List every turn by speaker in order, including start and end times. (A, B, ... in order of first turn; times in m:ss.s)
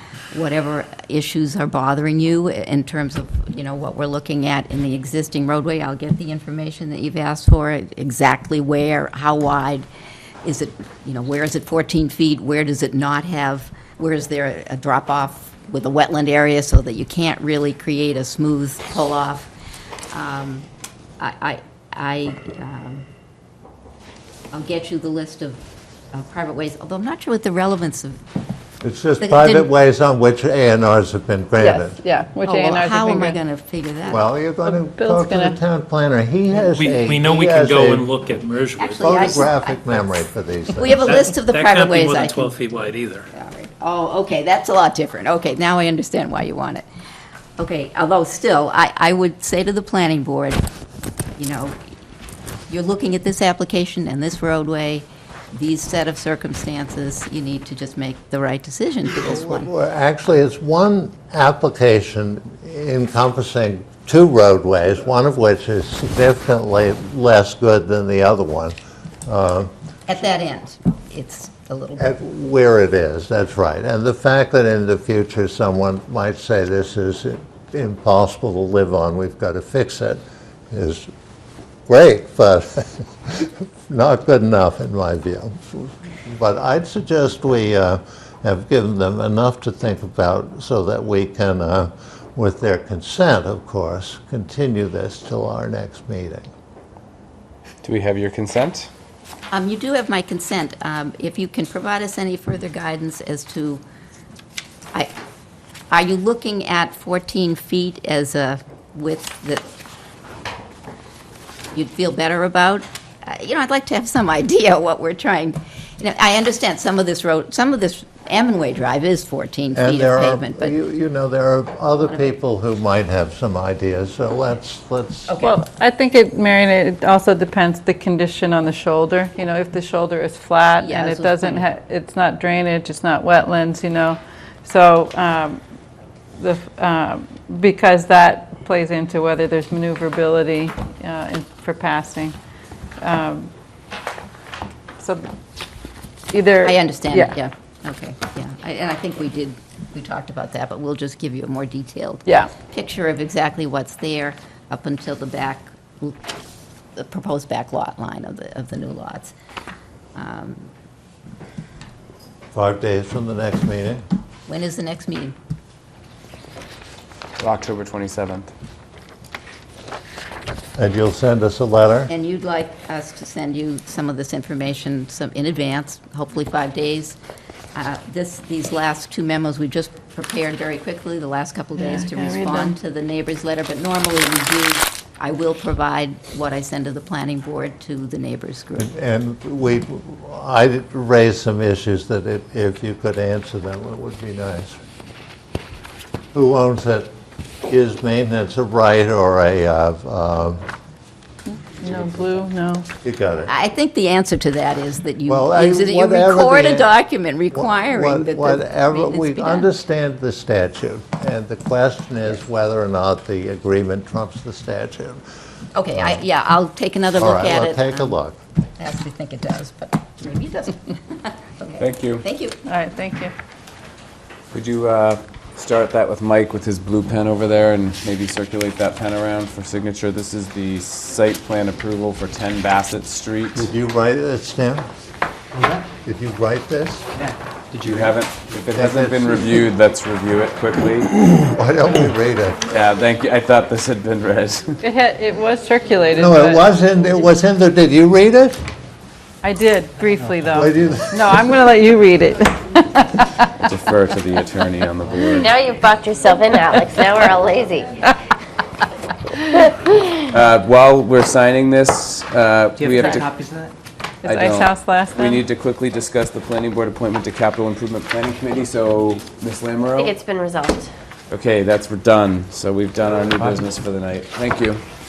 0:00.3-0:09.9 A
0:10.4-0:19.5 A
0:20.1-0:20.7 A
0:21.2-0:23.0 A
0:24.5-0:25.6 A
0:26.1-0:28.2 A
0:28.8-0:32.0 B
0:29.2-0:29.7 A
0:31.6-0:33.4 C
0:32.4-0:34.2 A
0:34.1-0:38.1 B
0:34.6-0:35.6 C
0:36.7-0:39.1 D
0:38.8-0:40.0 A
0:39.0-0:41.1 B
0:40.7-0:42.6 A
0:41.0-0:43.3 D
0:43.3-0:46.8 A
0:47.6-0:50.6 A
0:51.4-0:51.7 A
0:52.7-0:59.7 A
0:59.2-1:09.7 B
1:10.1-1:12.1 A
1:12.0-1:21.1 B
1:21.9-1:36.5 B
1:37.8-1:38.9 E
1:39.5-1:43.8 A
1:45.9-1:49.6 A
1:51.7-2:00.7 A
1:59.8-2:05.4 B
2:02.0-2:02.4 A
2:05.3-2:05.6 A
2:05.4-2:15.6 C
2:10.8-2:11.7 A
2:16.4-2:22.3 C
2:23.0-2:23.5 C
2:25.0-2:25.2 C
2:26.3-2:27.3 C
2:26.6-2:36.2 A
2:32.2-2:32.5 C
2:36.9-2:39.3 A
2:40.1-2:40.7 A
2:42.5-2:44.0 B
2:44.5-2:45.4 A
2:47.4-2:48.5 E
2:50.8-2:52.1 B
2:52.1-2:57.2 A
2:57.7-3:08.9 A
3:01.8-3:02.7 C
3:08.8-3:14.8 B
3:16.3-3:17.1 B
3:17.7-3:20.6 B
3:21.5-3:22.9 C
3:21.9-3:22.4 B
3:23.0-3:23.5 B
3:23.5-3:29.7 A
3:25.3-3:26.9 B
3:27.5-3:35.2 B
3:35.7-3:38.2 A
3:37.2-3:38.4 B
3:38.8-3:42.6 A
3:41.8-3:42.2 E
3:42.6-3:43.3 C
3:44.5-3:53.7 E
3:53.5-3:54.9 B
3:55.5-3:55.9 F
3:56.0-3:57.1 B
3:57.1-3:58.2 F
3:57.8-4:01.1 E
3:58.7-3:59.6 B
4:01.1-4:02.6 B
4:02.7-4:04.8 E
4:04.8-4:06.8 C
4:06.2-4:08.6 B
4:09.4-4:13.7 C
4:10.0-4:11.0 F
4:10.5-4:11.3 B
4:13.7-4:15.6 E
4:15.2-4:18.1 G
4:19.5-4:20.3 G
4:20.3-4:23.3 E
4:22.7-4:23.7 F
4:24.2-4:25.4 C
4:24.2-4:30.1 E
4:29.9-4:30.9 G
4:31.3-4:34.8 E